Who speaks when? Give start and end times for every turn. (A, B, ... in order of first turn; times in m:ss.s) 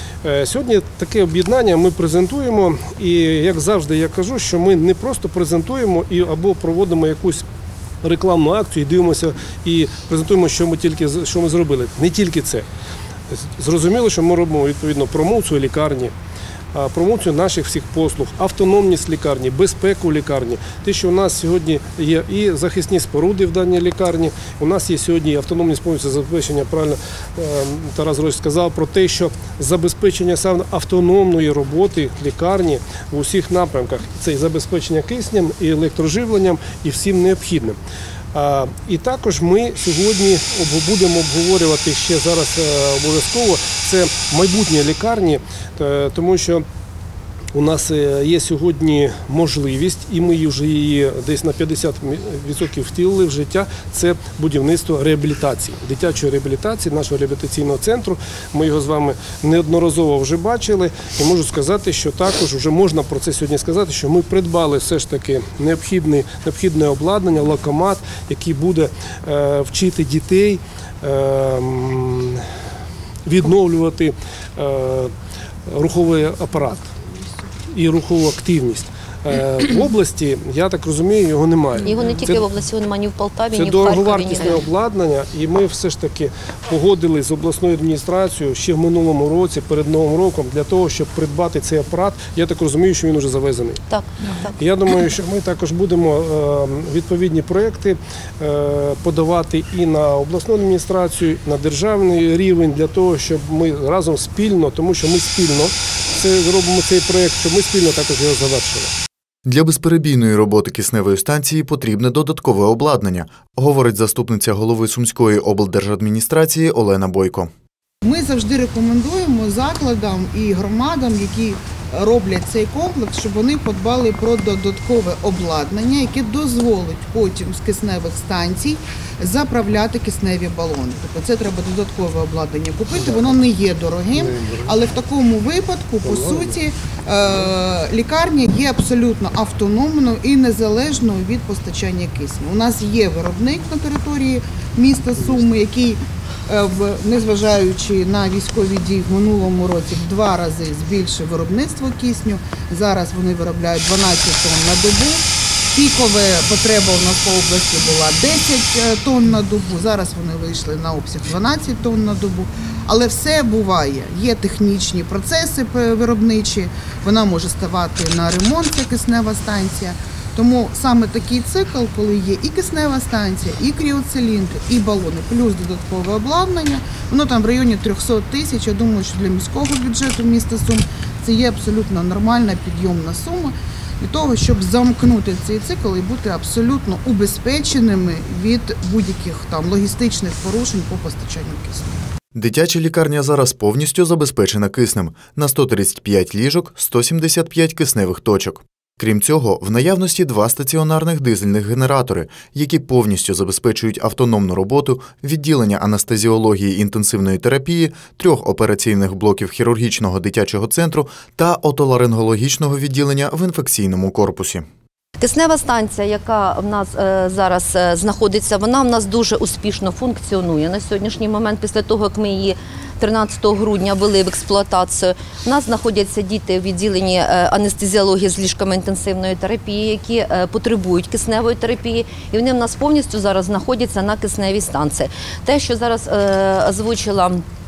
0:00.2-0:07.5 A
0:08.0-0:12.7 A
0:13.3-0:16.1 A
0:16.7-0:37.8 A
0:38.3-0:46.6 A
0:47.5-1:12.5 A
1:13.2-1:15.1 A
1:15.7-1:16.9 A
1:17.7-1:22.5 A
1:21.8-1:24.6 B
1:23.5-1:33.8 A
1:33.9-1:34.5 B
1:34.5-1:48.9 A
1:49.4-1:57.5 C
1:58.0-2:35.2 D
2:12.9-2:13.5 A
2:14.1-2:14.8 A
2:16.0-2:16.6 A
2:25.1-2:25.4 A
2:35.7-3:12.0 D
3:12.3-3:34.6 C
3:35.2-3:57.4 B